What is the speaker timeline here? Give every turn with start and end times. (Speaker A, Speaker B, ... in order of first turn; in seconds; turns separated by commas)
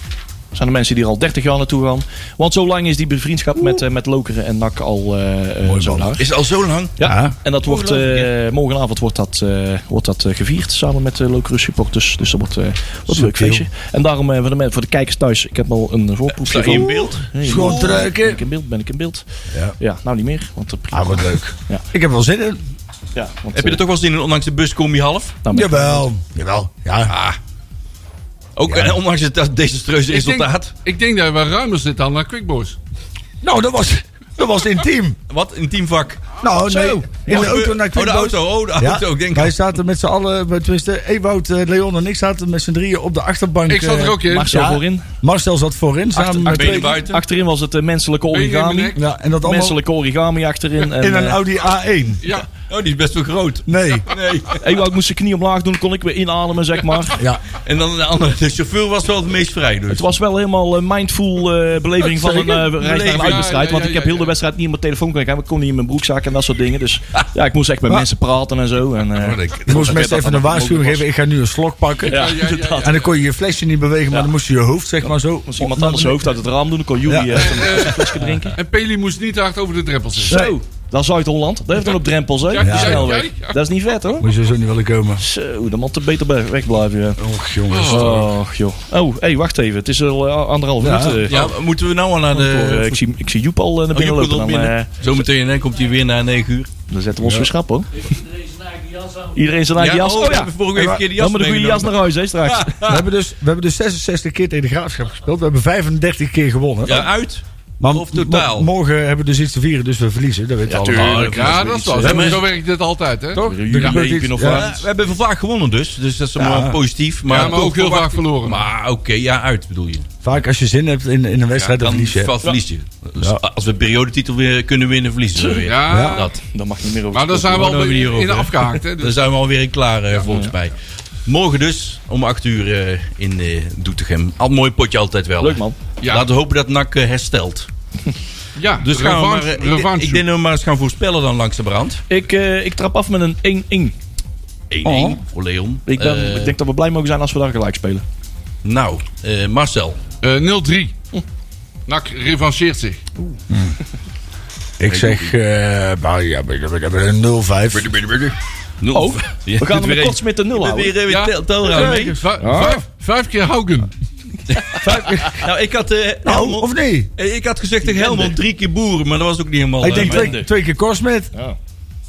Speaker A: 0.5-6.2, Speaker B: 5.8-7.0, Speaker A: 7.0-19.2, Speaker C: 7.0-7.3, Speaker B: 7.6-8.3, Speaker C: 13.1-13.6, Speaker B: 16.4-17.9, Speaker C: 16.7-18.4, Speaker A: 19.8-21.8, Speaker C: 20.9-22.6, Speaker A: 23.1-23.8, Speaker B: 23.5-25.4, Speaker A: 25.4-26.1, Speaker C: 25.5-27.1, Speaker B: 27.1-27.4, Speaker B: 28.6-30.7, Speaker C: 28.7-29.0, Speaker D: 30.1-32.8, Speaker C: 33.4-35.2, Speaker B: 35.3-39.5, Speaker C: 36.4-46.9, Speaker D: 43.7-44.5, Speaker A: 44.2-45.1, Speaker A: 46.1-51.4, Speaker B: 46.5-47.2, Speaker D: 48.3-49.0, Speaker C: 48.9-49.8, Speaker C: 50.9-52.4, Speaker D: 52.2-52.5, Speaker B: 52.7-54.6, Speaker C: 53.6-54.1, Speaker A: 54.6-57.2, Speaker C: 57.1-57.4, Speaker B: 57.5-60.1, Speaker A: 59.9-71.0, Speaker C: 62.1-62.6, Speaker B: 62.6-63.5, Speaker D: 62.9-64.4, Speaker B: 69.1-70.2, Speaker C: 69.7-76.2, Speaker D: 72.0-73.1, Speaker A: 72.1-73.0, Speaker A: 75.5-78.6, Speaker C: 77.0-78.1, Speaker D: 77.3-80.4, Speaker A: 80.2-84.3, Speaker C: 80.3-80.6, Speaker D: 82.5-83.6, Speaker C: 82.6-83.1, Speaker C: 84.2-85.2, Speaker A: 85.2-87.2, Speaker C: 87.2-88.2, Speaker D: 87.7-88.2, Speaker A: 87.8-91.5, Speaker C: 90.8-91.3, Speaker B: 91.3-93.0, Speaker A: 92.3-94.9, Speaker B: 93.9-96.7, Speaker A: 96.9-98.3, Speaker A: 99.1-102.8, Speaker B: 99.8-103.0, Speaker C: 102.8-107.1, Speaker B: 106.8-108.7, Speaker C: 107.8-111.3, Speaker A: 110.7-112.4, Speaker B: 110.9-112.4, Speaker D: 111.2-113.4, Speaker A: 113.3-114.8, Speaker B: 113.4-120.1, Speaker C: 113.7-114.7, Speaker C: 116.3-116.8, Speaker D: 117.2-118.6, Speaker C: 120.2-122.3, Speaker B: 121.8-126.3, Speaker D: 125.6-126.3, Speaker C: 125.9-126.3, Speaker A: 126.4-127.8, Speaker D: 127.1-129.2, Speaker B: 127.5-130.7, Speaker A: 130.2-130.5, Speaker B: 131.2-137.7, Speaker A: 135.4-135.8, Speaker D: 136.0-136.3, Speaker D: 138.6-140.2, Speaker B: 138.8-142.0, Speaker A: 142.1-143.9, Speaker B: 144.7-146.5, Speaker C: 144.8-145.2, Speaker A: 145.8-148.0, Speaker B: 148.6-150.0, Speaker D: 150.2-150.9, Speaker D: 151.9-153.0, Speaker C: 153.5-153.8, Speaker C: 154.8-157.9, Speaker B: 154.9-155.3, Speaker B: 157.7-162.2, Speaker A: 158.9-161.0, Speaker D: 161.1-163.9, Speaker C: 161.7-162.7, Speaker A: 162.4-162.8, Speaker B: 164.5-170.3, Speaker C: 164.7-165.4, Speaker C: 166.2-167.1, Speaker A: 167.8-168.4, Speaker C: 169.8-171.3, Speaker A: 169.8-170.5